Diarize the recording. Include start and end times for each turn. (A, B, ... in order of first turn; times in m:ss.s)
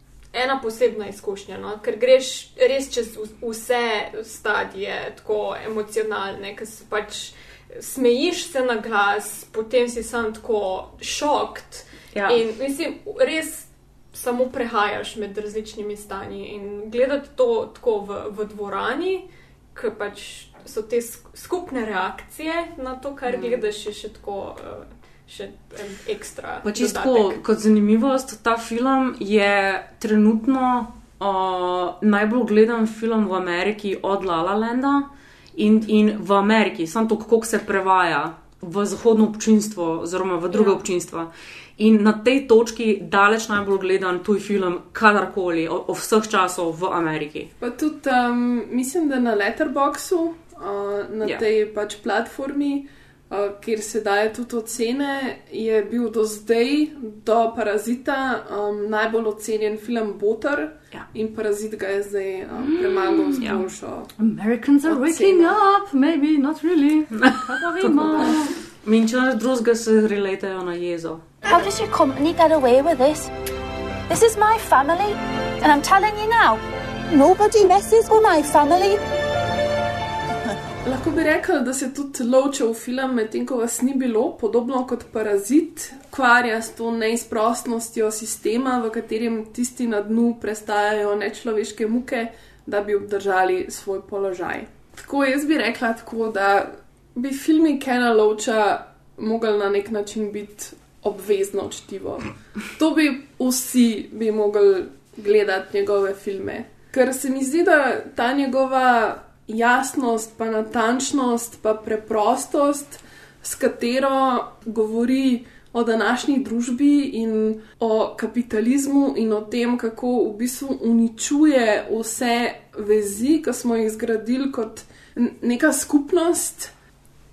0:00.3-0:27.4 A
0:12.1-0:12.4 B
0:26.6-0:47.5 B
0:47.6-1:04.1 C
1:02.6-1:03.5 D
1:03.4-1:03.6 B
1:04.2-1:08.6 D
1:04.8-1:05.6 C
1:07.1-1:11.2 B
1:11.4-1:13.3 E
1:14.1-1:19.0 E
1:20.8-2:06.7 C